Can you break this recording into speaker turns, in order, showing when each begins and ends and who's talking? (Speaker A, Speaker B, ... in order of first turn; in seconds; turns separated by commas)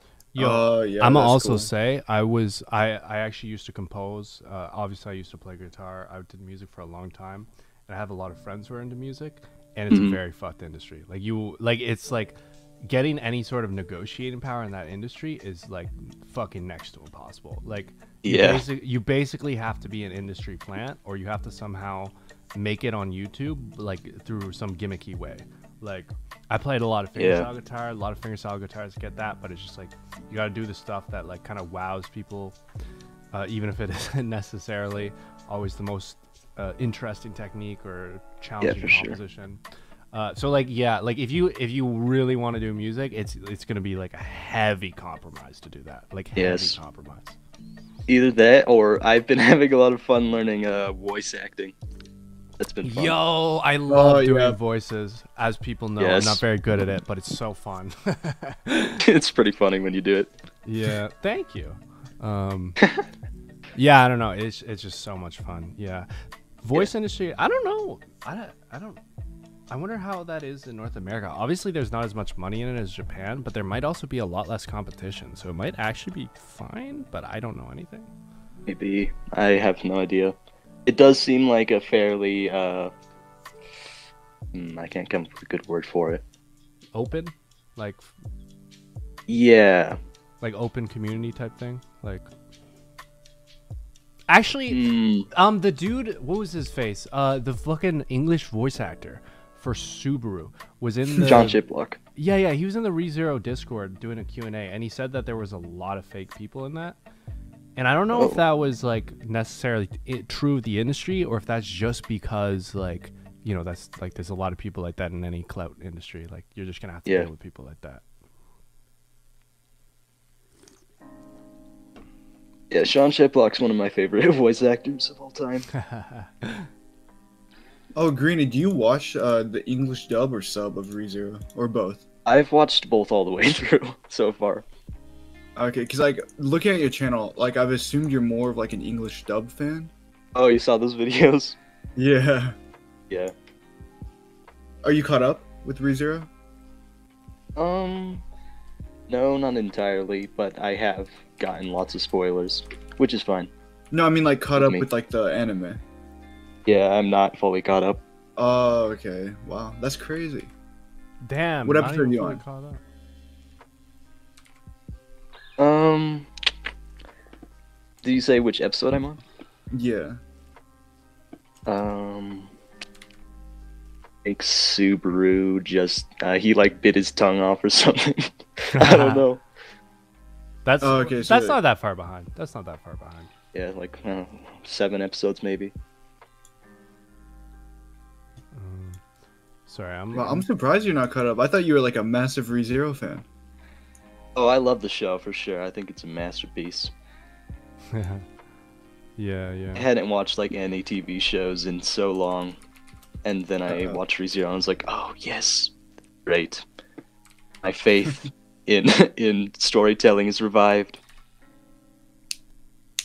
Speaker A: 0.3-32.6, Speaker B: 0.4-1.7, Speaker C: 9.9-10.2, Speaker C: 18.2-18.6, Speaker C: 27.2-27.5, Speaker A: 33.3-39.6, Speaker C: 38.6-39.2, Speaker A: 40.1-47.4, Speaker C: 46.4-46.8, Speaker C: 48.1-51.8, Speaker C: 52.6-53.2, Speaker A: 52.8-59.0, Speaker B: 53.9-54.6, Speaker C: 56.0-56.4, Speaker C: 59.0-60.3, Speaker A: 60.7-62.8, Speaker A: 63.8-66.1, Speaker A: 66.6-69.0, Speaker A: 69.7-78.1, Speaker C: 78.7-82.9, Speaker C: 84.5-86.2, Speaker A: 86.9-88.1, Speaker C: 89.3-90.0, Speaker A: 90.4-92.3, Speaker A: 94.3-101.6, Speaker C: 94.7-95.3, Speaker C: 101.2-102.0, Speaker A: 102.2-107.0, Speaker A: 107.8-118.0, Speaker C: 108.1-108.4, Speaker C: 122.7-125.7, Speaker A: 125.8-126.7, Speaker B: 128.0-132.0, Speaker C: 132.3-134.7, Speaker B: 135.6-139.9, Speaker C: 140.3-141.6, Speaker B: 142.0-142.6, Speaker B: 144.8-146.3, Speaker C: 147.6-148.2, Speaker C: 149.1-153.5, Speaker B: 153.9-155.8, Speaker C: 154.6-154.9, Speaker C: 156.7-158.0, Speaker B: 158.4-160.5, Speaker A: 161.2-162.8, Speaker B: 161.6-162.4, Speaker C: 165.6-166.3, Speaker C: 168.0-169.2, Speaker B: 169.7-170.2, Speaker C: 171.7-172.5, Speaker C: 174.2-179.4, Speaker A: 178.7-179.2, Speaker A: 180.7-183.3, Speaker B: 180.8-181.6, Speaker C: 183.5-185.7, Speaker A: 188.5-189.0, Speaker A: 189.7-190.5, Speaker B: 190.1-193.3, Speaker C: 194.4-196.9, Speaker A: 197.9-198.2, Speaker A: 199.2-199.9, Speaker C: 199.8-202.6, Speaker C: 203.2-205.7, Speaker B: 203.7-204.0, Speaker C: 206.3-206.7, Speaker C: 207.6-211.0